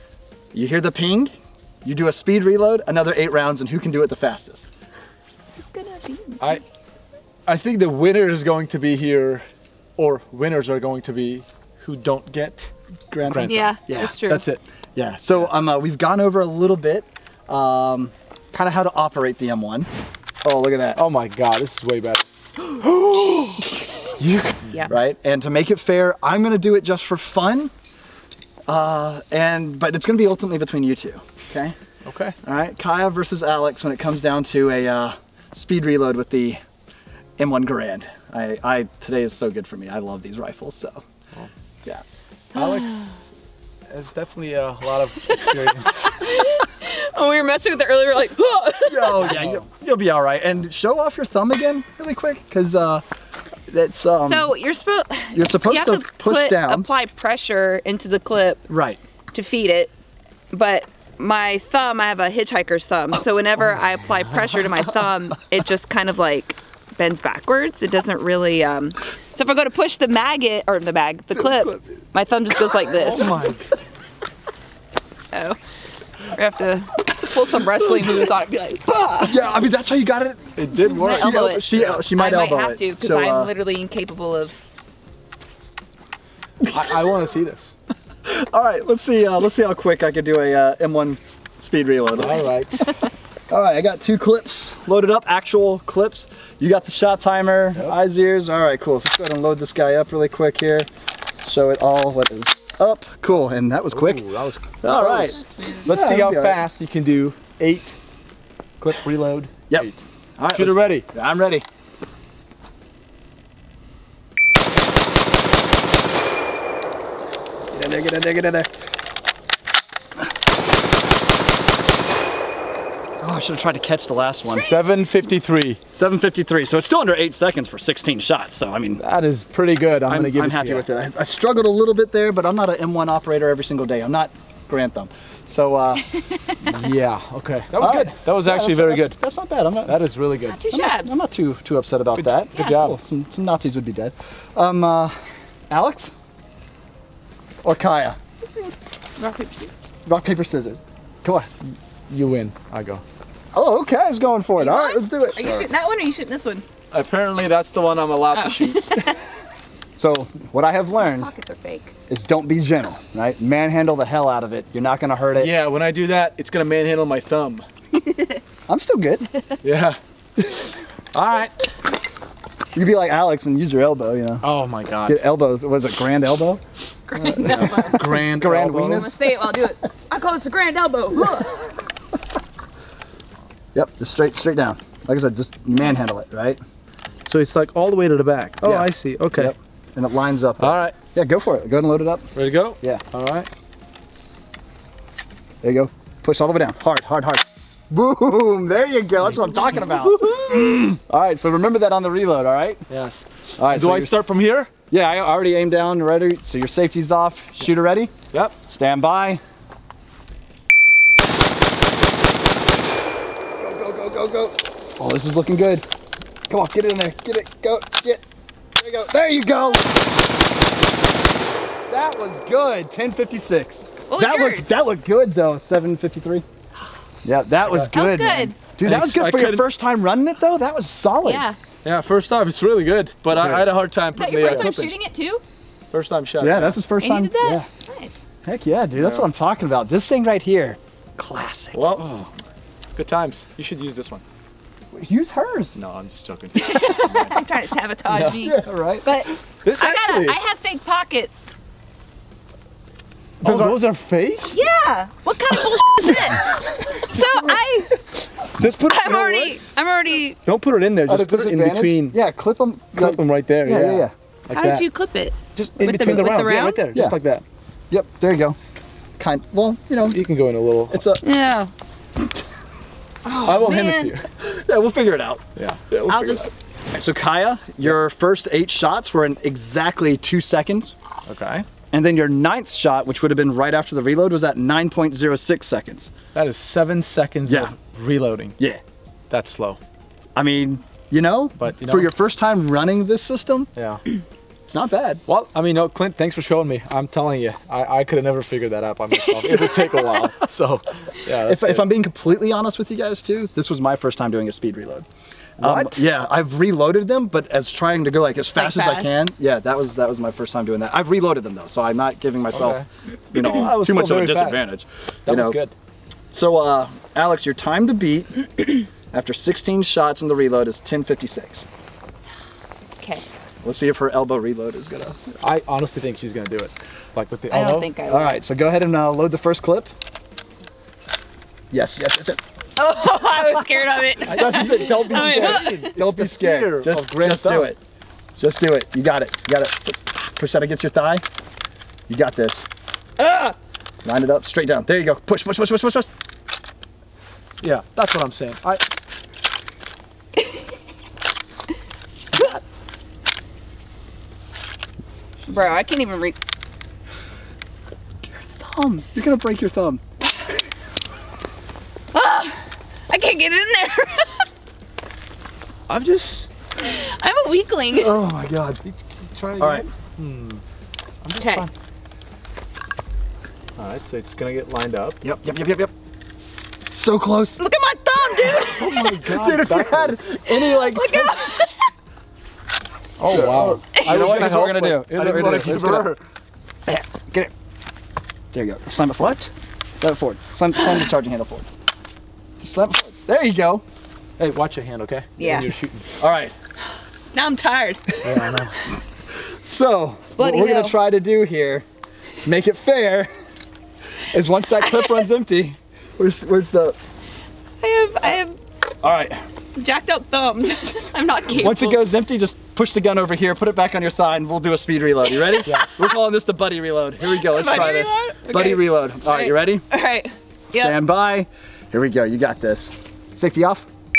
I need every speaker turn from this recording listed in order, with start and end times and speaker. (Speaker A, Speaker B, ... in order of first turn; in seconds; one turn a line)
Speaker A: 0.5-1.3
Speaker A: 1.8-4.7
Speaker B: 5.6-6.6
Speaker C: 7.5-9.4
Speaker C: 10.0-14.6
Speaker A: 13.1-14.2
Speaker B: 13.4-14.4
Speaker A: 14.9-19.9
Speaker A: 20.4-21.0
Speaker C: 20.9-24.7
Speaker A: 24.9-27.7
Speaker A: 28.7-31.7
Speaker C: 32.0-32.4
Speaker A: 32.4-36.6
Speaker A: 37.4-41.0
Speaker C: 42.5-43.2
Speaker B: 42.6-42.9
Speaker C: 43.9-46.1
Speaker B: 45.3-49.4
Speaker A: 48.9-53.0
Speaker C: 49.2-49.6
Speaker A: 53.7-54.5
Speaker B: 54.2-58.6
Speaker A: 55.3-56.9
Speaker A: 58.7-59.0
Speaker B: 59.3-59.9
Speaker B: 60.5-73.3
Speaker C: 73.0-73.6
Speaker A: 73.1-73.5
Speaker B: 75.3-75.6
Speaker B: 76.3-79.4
Speaker A: 79.2-83.5
Speaker C: 80.5-82.0
Speaker B: 80.8-84.6
Speaker A: 86.6-87.1
Speaker C: 86.7-87.7
Speaker A: 88.2-92.5
Speaker C: 92.1-92.9
Speaker A: 93.5-100.9
Speaker A: 101.4-104.3
Speaker C: 103.9-108.0
Speaker A: 104.8-106.7
Speaker B: 105.3-105.9
Speaker C: 108.8-111.1
Speaker A: 109.7-111.6
Speaker A: 117.7-118.7
Speaker A: 123.2-124.7
Speaker C: 124.5-125.8
Speaker A: 125.9-129.0
Speaker C: 129.0-130.8
Speaker A: 130.1-136.1
Speaker C: 136.6-139.2
Speaker A: 137.7-140.0
Speaker C: 139.8-140.6
Speaker B: 140.4-141.2
Speaker A: 140.7-145.1
Speaker C: 142.2-143.0
Speaker B: 142.5-142.8
Speaker A: 145.7-146.1
Speaker A: 147.6-148.2
Speaker B: 148.4-149.7
Speaker A: 150.1-151.5
Speaker C: 152.1-153.0
Speaker A: 153.5-155.6
Speaker B: 154.6-156.6
Speaker C: 156.9-158.8
Speaker B: 158.3-159.2
Speaker A: 159.9-161.3
Speaker B: 161.0-161.9
Speaker A: 162.1-165.5
Speaker C: 165.3-167.7
Speaker A: 168.7-169.3
Speaker C: 169.6-170.0
Speaker C: 171.1-171.7
Speaker A: 172.7-174.4
Speaker C: 174.4-175.2
Speaker A: 175.1-176.6
Speaker B: 177.1-178.1
Speaker A: 177.2-179.2
Speaker C: 177.2-179.1
Speaker B: 178.9-181.7
Speaker A: 183.7-186.6
Speaker C: 187.3-189.5
Speaker A: 188.6-192.3
Speaker C: 190.6-190.9
Speaker C: 192.3-193.5
Speaker A: 195.6-202.9
Speaker C: 199.2-200.6
Speaker C: 202.9-204.7
Speaker A: 203.6-204.2
Speaker A: 204.9-208.1
Speaker A: 208.6-209.4
Speaker A: 213.6-215.8
Speaker A: 216.5-218.2
Speaker A: 218.8-219.9
Speaker A: 221.9-226.4
Speaker B: 224.1-224.7
Speaker A: 227.2-231.5
Speaker B: 227.9-228.6
Speaker C: 228.8-229.7
Speaker B: 231.2-231.6
Speaker C: 231.8-234.9
Speaker A: 233.3-234.9
Speaker B: 234.1-235.4
Speaker C: 235.9-236.8
Speaker A: 236.4-237.7
Speaker B: 237.0-238.2
Speaker A: 238.4-242.0
Speaker C: 238.9-239.2
Speaker C: 241.7-242.3
Speaker C: 242.9-244.2
Speaker A: 244.9-245.8
Speaker C: 245.8-247.3
Speaker B: 246.6-251.5
Speaker C: 248.1-248.5
Speaker A: 248.4-249.1
Speaker C: 249.6-250.4
Speaker C: 253.4-254.5
Speaker A: 253.4-253.8
Speaker B: 254.5-258.0
Speaker C: 258.6-259.6
Speaker B: 258.9-260.4
Speaker C: 260.4-262.2
Speaker A: 261.1-264.1
Speaker C: 262.9-264.9
Speaker B: 264.5-266.9
Speaker C: 265.6-267.4
Speaker A: 267.9-268.6
Speaker A: 269.2-270.2
Speaker C: 270.1-271.0
Speaker A: 270.9-271.2
Speaker B: 271.2-271.7
Speaker B: 273.2-274.1
Speaker C: 273.4-274.3
Speaker A: 274.4-275.4
Speaker C: 275.6-276.4
Speaker B: 276.1-276.5
Speaker A: 276.1-280.9
Speaker C: 281.3-281.6
Speaker A: 281.9-286.1
Speaker C: 286.3-288.5
Speaker A: 287.4-287.7
Speaker C: 289.3-289.8
Speaker A: 290.3-293.7
Speaker C: 291.6-292.1
Speaker C: 293.7-294.0
Speaker A: 294.7-295.2
Speaker C: 295.3-301.9
Speaker A: 301.4-305.1
Speaker C: 305.6-306.1
Speaker A: 305.6-315.6
Speaker B: 308.6-309.2
Speaker C: 312.5-314.7
Speaker C: 315.2-315.7
Speaker A: 316.3-321.6
Speaker B: 323.0-323.2
Speaker A: 323.6-325.2
Speaker C: 325.4-327.9
Speaker B: 327.5-328.4
Speaker A: 328.1-329.9
Speaker A: 331.7-332.4
Speaker B: 332.8-336.0
Speaker C: 334.2-337.7
Speaker A: 334.3-337.8
Speaker A: 338.4-341.2
Speaker A: 342.1-342.7
Speaker B: 343.2-343.6
Speaker A: 344.0-346.1
Speaker C: 347.6-348.8
Speaker B: 355.5-356.4
Speaker A: 358.2-360.0
Speaker B: 362.1-364.4
Speaker C: 365.9-366.5
Speaker B: 366.8-368.1
Speaker A: 367.9-368.8
Speaker C: 369.3-370.6
Speaker A: 369.6-369.9
Speaker C: 371.2-371.7
Speaker B: 371.4-371.7
Speaker C: 373.8-375.2
Speaker A: 375.2-375.9
Speaker A: 376.9-377.6
Speaker B: 377.6-379.0
Speaker A: 378.1-381.4
Speaker C: 378.6-380.3
Speaker B: 380.4-381.9
Speaker C: 383.2-386.2
Speaker A: 383.3-386.1
Speaker A: 386.9-387.5
Speaker A: 388.5-389.4
Speaker C: 389.2-389.5
Speaker A: 390.0-391.7
Speaker A: 392.6-393.8
Speaker C: 394.4-396.1
Speaker B: 395.4-395.7
Speaker A: 396.2-396.5
Speaker B: 397.3-398.2
Speaker C: 398.2-398.8
Speaker A: 399.4-401.8
Speaker B: 400.4-401.0
Speaker A: 402.4-403.3
Speaker A: 404.3-406.9
Speaker B: 404.8-405.2
Speaker B: 407.8-408.6
Speaker A: 409.0-409.4
Speaker B: 409.8-412.0
Speaker A: 411.5-419.8
Speaker C: 415.6-415.9
Speaker B: 417.2-421.0
Speaker A: 420.7-423.9